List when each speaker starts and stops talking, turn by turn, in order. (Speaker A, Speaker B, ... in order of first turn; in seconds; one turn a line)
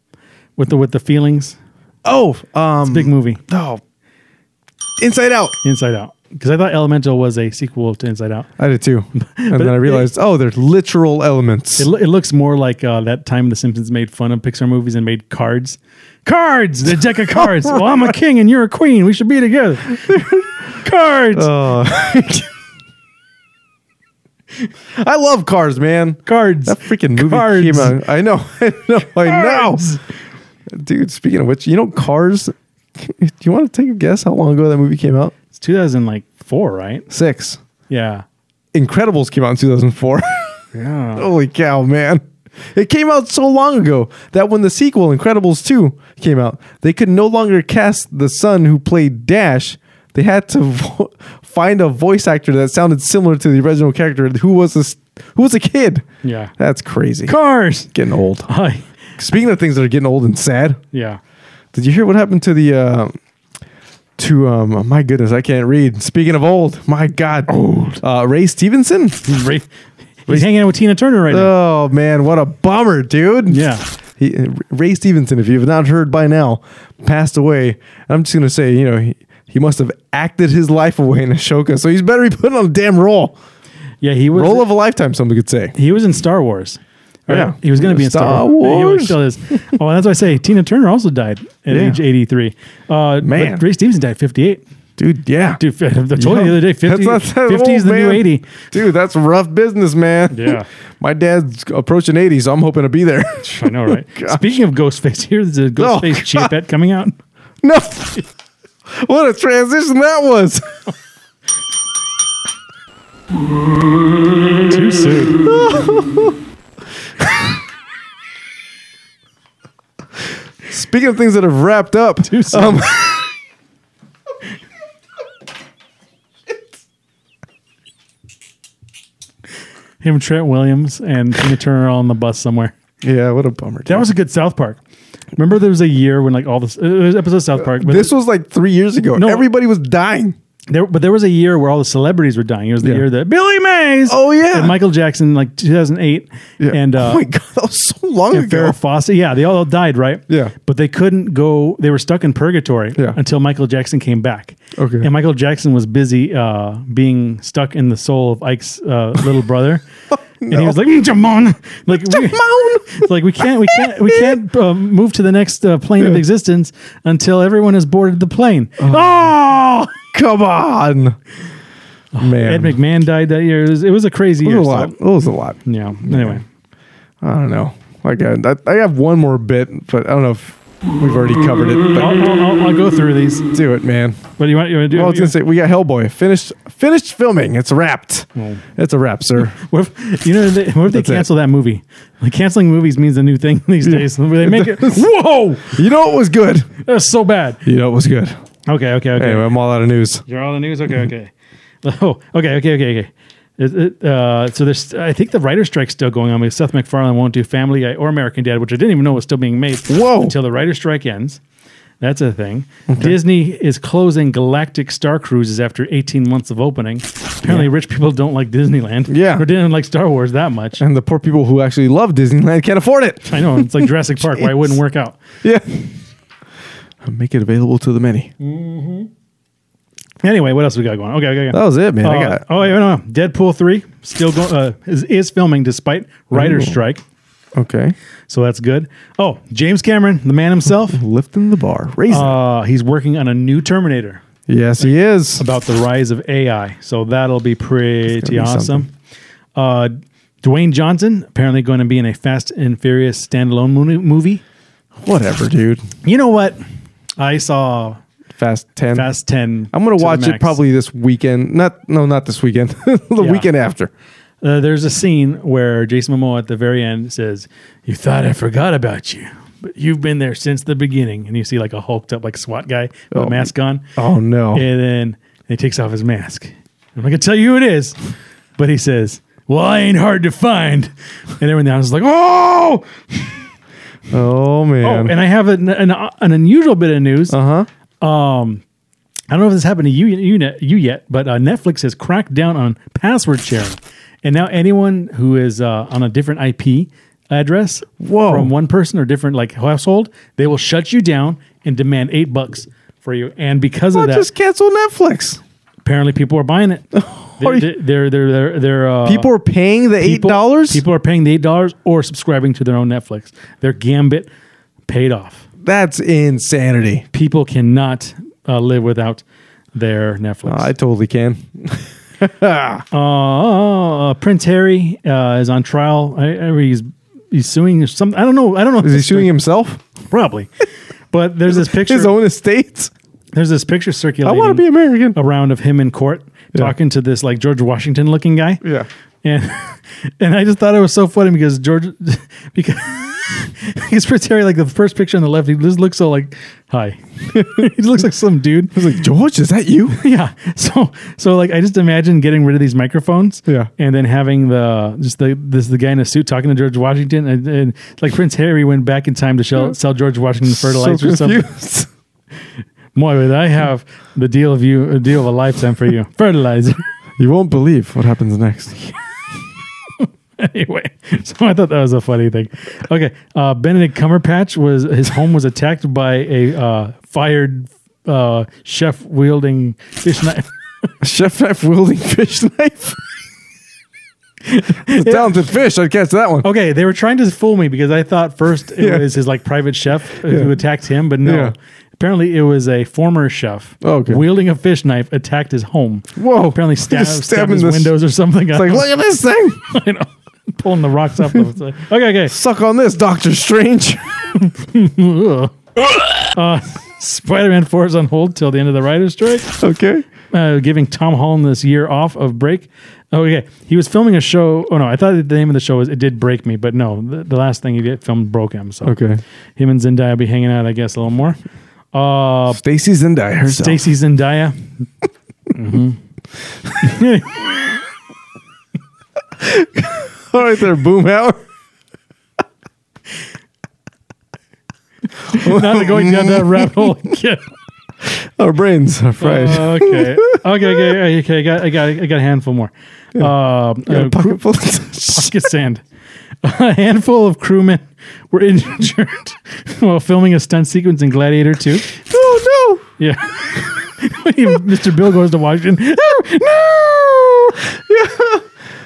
Speaker A: 0.6-1.6
Speaker B: 2.0-3.8
Speaker A: 2.9-3.4
Speaker B: 5.0-5.6
Speaker A: 5.6-8.5
Speaker B: 8.6-11.9
Speaker A: 9.2-10.1
Speaker A: 11.8-20.1
Speaker B: 17.1-18.1
Speaker B: 19.9-20.7
Speaker A: 20.8-21.5
Speaker B: 21.3-22.5
Speaker B: 24.9-29.9
Speaker A: 26.2-28.0
Speaker A: 29.2-30.0
Speaker B: 30.7-35.3
Speaker A: 35.5-37.1
Speaker B: 37.1-37.6
Speaker A: 37.9-38.2
Speaker B: 38.7-40.6
Speaker A: 40.7-41.3
Speaker B: 41.1-56.0
Speaker A: 56.2-56.5
Speaker B: 56.6-57.3
Speaker A: 57.2-57.9
Speaker B: 57.9-58.5
Speaker A: 58.5-58.9
Speaker B: 59.2-60.8
Speaker A: 60.9-61.2
Speaker B: 61.7-63.1
Speaker B: 64.2-69.2
Speaker A: 69.2-69.7
Speaker A: 70.2-71.5
Speaker B: 71.3-83.3
Speaker A: 73.5-73.8
Speaker A: 84.0-84.7
Speaker B: 84.3-85.7
Speaker A: 85.7-94.6
Speaker B: 87.3-89.2
Speaker B: 91.7-92.0
Speaker B: 93.2-93.6
Speaker B: 95.0-95.6
Speaker A: 95.6-98.5
Speaker B: 96.1-104.6
Speaker A: 100.3-100.7
Speaker A: 103.6-107.1
Speaker B: 105.8-106.5
Speaker B: 107.6-108.2
Speaker B: 108.9-110.7
Speaker A: 114.7-115.4
Speaker B: 115.4-116.3
Speaker B: 117.2-117.5
Speaker B: 120.7-123.1
Speaker A: 122.2-123.1
Speaker A: 130.0-132.7
Speaker B: 133.0-134.1
Speaker A: 133.9-134.8
Speaker A: 135.3-138.1
Speaker B: 137.6-140.3
Speaker A: 139.2-139.5
Speaker A: 140.7-147.2
Speaker B: 144.1-144.8
Speaker B: 146.6-148.8
Speaker A: 148.3-159.8
Speaker B: 150.3-150.5
Speaker B: 154.8-155.1
Speaker B: 160.4-160.8
Speaker A: 160.5-169.3
Speaker B: 161.9-164.4
Speaker B: 168.8-171.2
Speaker A: 172.2-175.0
Speaker B: 172.2-172.8
Speaker B: 174.4-176.4
Speaker A: 175.7-176.4
Speaker B: 177.2-182.3
Speaker A: 181.9-183.4
Speaker B: 183.5-184.3
Speaker A: 184.4-185.3
Speaker B: 184.9-189.5
Speaker A: 188.3-188.6
Speaker A: 189.4-195.8
Speaker B: 190.9-191.2
Speaker B: 193.8-195.1
Speaker B: 195.7-196.7
Speaker A: 196.8-197.6
Speaker B: 197.6-198.3
Speaker A: 198.7-199.5
Speaker B: 199.1-200.2
Speaker A: 200.3-201.3
Speaker A: 201.8-211.4
Speaker B: 209.9-210.3
Speaker A: 212.0-220.8
Speaker B: 212.9-213.2
Speaker B: 219.1-219.4
Speaker B: 220.8-224.8
Speaker A: 223.3-225.2
Speaker B: 225.4-225.9
Speaker B: 227.0-228.3
Speaker A: 228.4-229.1
Speaker A: 230.2-237.0
Speaker B: 231.5-232.4
Speaker B: 236.3-236.8
Speaker B: 237.5-237.9
Speaker A: 238.3-241.0
Speaker B: 240.9-242.4
Speaker A: 242.1-244.2
Speaker B: 244.5-245.4
Speaker A: 245.4-248.9
Speaker B: 248.1-248.9
Speaker A: 249.6-254.4
Speaker B: 255.0-255.8
Speaker A: 256.0-256.6
Speaker A: 257.2-258.0
Speaker B: 258.3-259.1
Speaker A: 258.9-260.6
Speaker B: 259.7-263.9
Speaker A: 263.2-263.5
Speaker A: 264.4-273.9
Speaker B: 273.1-274.6
Speaker A: 274.5-278.0
Speaker A: 278.6-283.3
Speaker B: 284.1-285.1
Speaker A: 284.8-287.4
Speaker B: 287.3-287.7
Speaker A: 288.0-288.6
Speaker A: 289.3-304.3
Speaker B: 298.0-298.5
Speaker B: 303.9-305.4
Speaker A: 305.8-309.3
Speaker B: 306.9-307.7
Speaker B: 309.0-310.8
Speaker A: 310.0-314.3
Speaker A: 314.9-315.4
Speaker B: 315.6-317.0
Speaker A: 317.1-319.2
Speaker A: 319.7-320.7
Speaker B: 320.4-322.8
Speaker A: 322.9-329.3
Speaker B: 328.8-329.8
Speaker A: 330.1-332.1
Speaker B: 331.5-332.9
Speaker A: 333.3-338.6
Speaker B: 334.2-335.2
Speaker B: 338.6-338.9
Speaker A: 339.2-348.8
Speaker B: 347.3-347.7
Speaker B: 348.7-350.0
Speaker A: 349.9-361.5
Speaker B: 360.4-361.9
Speaker A: 362.9-366.8
Speaker B: 367.2-368.9
Speaker A: 370.0-380.5
Speaker B: 381.0-383.0
Speaker A: 384.5-385.4
Speaker B: 384.8-386.4
Speaker A: 386.4-398.9
Speaker B: 388.8-389.1
Speaker B: 390.2-390.5
Speaker B: 391.2-391.5
Speaker B: 393.8-394.2
Speaker B: 396.1-397.9
Speaker B: 398.5-399.6
Speaker A: 399.6-402.4
Speaker B: 402.3-404.3
Speaker A: 404.3-409.6
Speaker B: 409.6-410.1
Speaker A: 410.3-419.0
Speaker B: 418.8-419.2
Speaker A: 419.6-421.4
Speaker A: 421.9-422.6
Speaker B: 422.5-423.8
Speaker A: 423.4-424.9
Speaker A: 425.5-426.0
Speaker A: 426.8-427.5
Speaker B: 429.4-431.4
Speaker A: 435.3-437.4
Speaker B: 435.3-436.9
Speaker B: 438.0-440.9
Speaker A: 439.2-444.4
Speaker B: 443.9-445.5
Speaker A: 445.0-445.8
Speaker A: 446.4-451.9
Speaker B: 451.9-452.8
Speaker A: 453.0-457.2
Speaker B: 456.6-458.5